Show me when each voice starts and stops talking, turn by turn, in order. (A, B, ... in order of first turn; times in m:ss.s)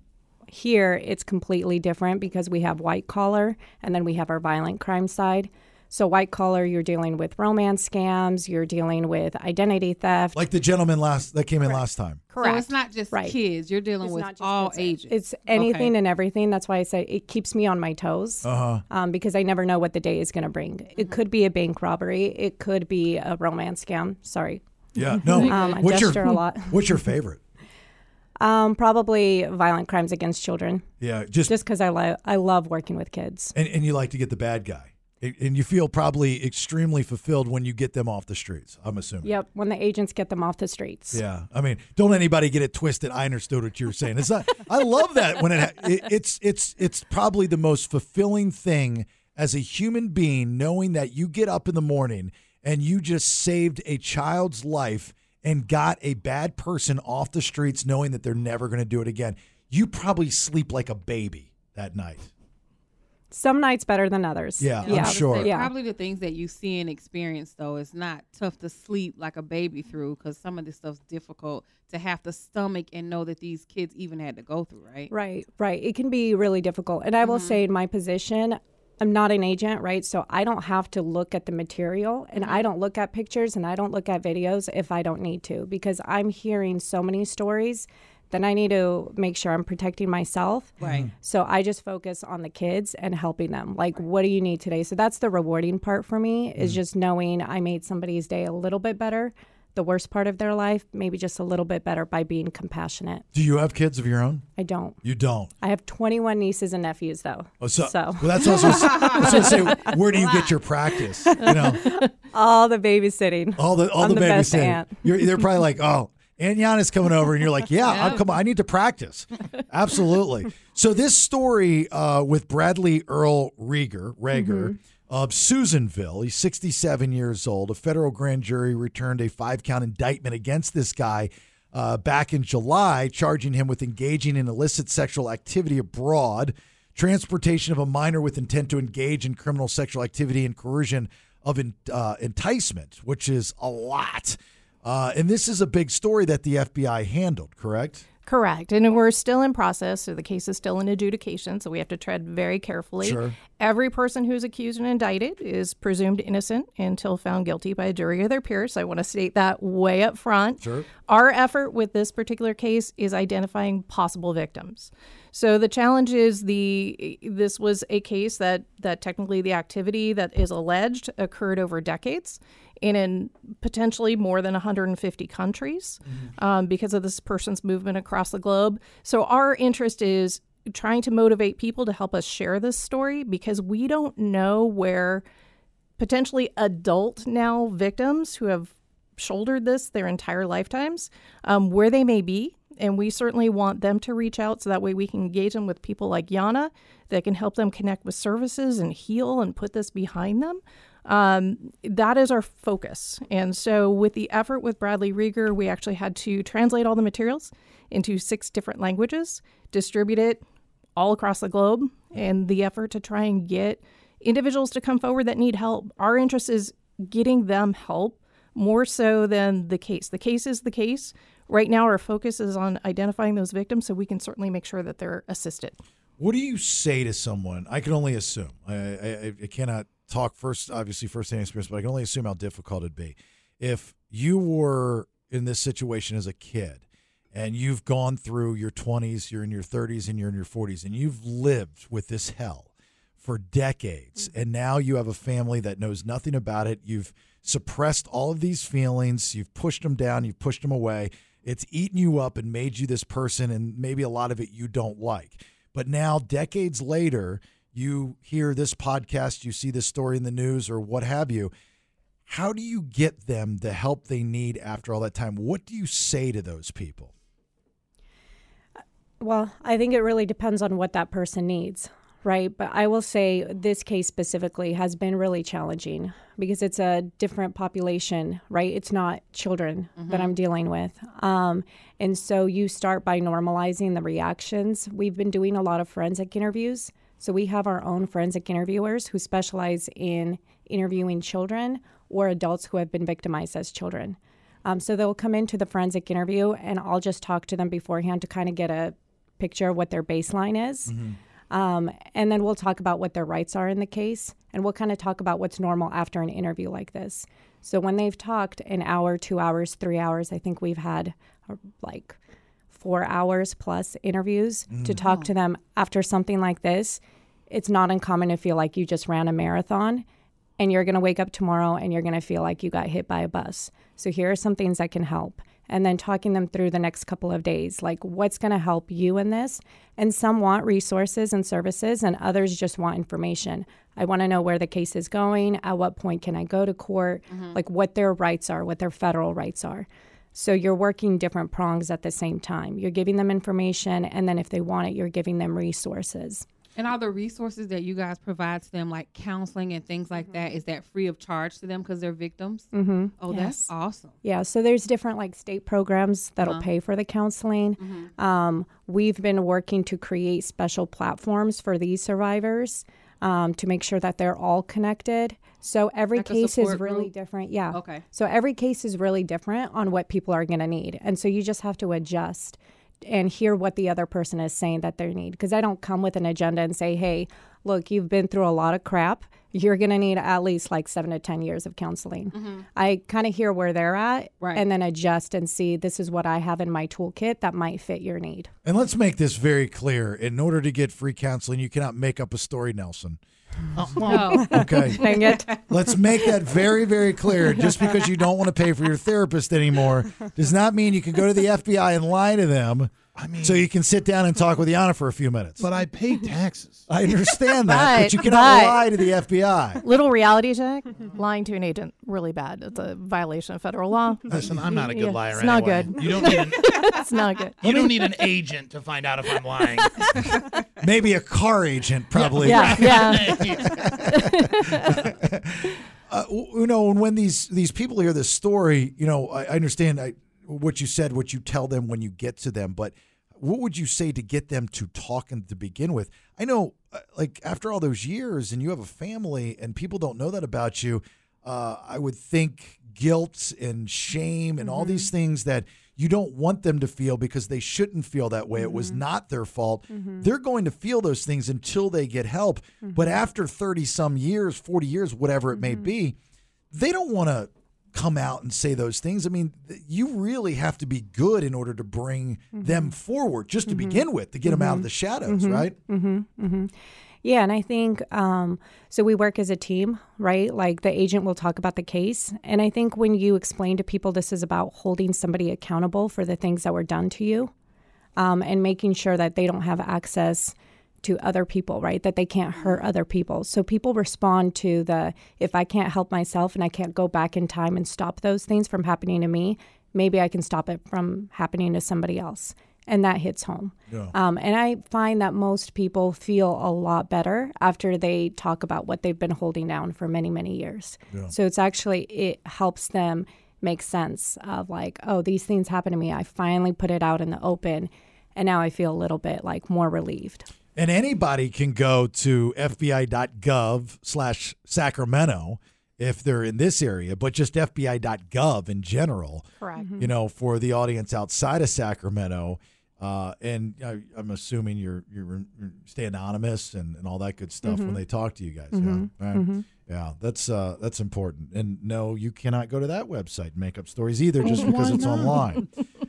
0:00.5-0:10.4 A
0:10.3-0:12.2 B
0:12.3-0:12.7 C
0:12.4-0:15.9 D
0:14.0-0:24.6 A
0:18.4-0:18.8 B
0:25.0-0:27.4 B
0:25.4-0:26.8 A
0:28.4-0:30.8 A
0:31.0-0:31.6 B
0:31.5-0:33.6 A
0:33.6-0:39.3 B
0:39.2-0:41.2 A
0:41.1-1:02.3 B
1:03.3-1:05.7 A
1:04.6-1:05.5 B
1:04.8-1:15.1 D
1:15.1-1:43.2 A
1:17.2-1:17.6 D
1:22.4-1:22.6 D
1:30.8-1:31.1 D
1:30.8-1:31.1 B
1:43.3-1:44.5 B
1:44.6-1:45.0 A
1:45.0-1:45.5 B
1:45.6-1:50.0 A
1:47.6-1:51.9 B
1:51.4-1:55.3 A
1:51.5-1:51.9 C
1:53.6-2:28.0 B
1:57.9-1:58.2 D
2:04.3-2:04.7 A
2:28.3-3:05.2 C
2:33.0-2:33.4 B
2:40.6-2:40.9 B
3:06.0-3:30.4 C
3:31.0-3:45.8 C
3:46.2-4:21.5 B
4:22.3-4:27.1 B
4:29.2-5:01.0 A
4:40.0-4:40.4 D
5:00.9-5:01.2 B
5:01.5-5:12.2 A
5:12.7-5:20.0 A
5:14.7-5:15.0 B
5:20.6-5:46.4 A
5:37.3-5:37.6 D
5:46.8-5:52.7 D
5:52.7-5:53.2 A
5:53.2-5:54.1 D
5:53.3-5:53.7 C
5:54.2-6:28.5 A
5:57.8-5:58.1 D
6:06.2-6:07.1 D
6:07.7-6:08.0 D
6:22.3-6:22.6 D
6:28.6-6:33.2 B
6:33.8-6:34.5 E
6:34.0-6:35.6 D
6:34.1-6:35.6 A
6:34.5-6:45.7 B
6:43.2-6:43.6 E
6:45.6-6:46.8 E
6:46.9-6:49.8 B
6:47.6-6:48.9 C
6:49.8-6:57.7 C
6:54.3-6:56.8 E
6:54.3-6:54.6 B
6:57.6-7:00.4 E
6:57.6-6:58.0 B
7:00.8-7:36.2 B
7:02.2-7:04.0 E
7:02.4-7:05.1 C
7:24.6-7:25.1 A
7:28.6-7:29.0 A
7:29.9-7:30.3 A
7:35.6-7:35.9 A
7:36.7-7:45.8 B
7:42.6-7:42.9 A
7:43.7-7:46.7 A
7:47.2-7:57.5 A
7:58.2-8:30.5 A
8:30.8-8:55.7 B
8:39.6-8:39.9 C
8:39.8-8:40.1 A
8:47.6-8:48.0 A
8:48.7-8:49.6 A
8:54.5-8:55.5 E
8:54.5-8:55.4 C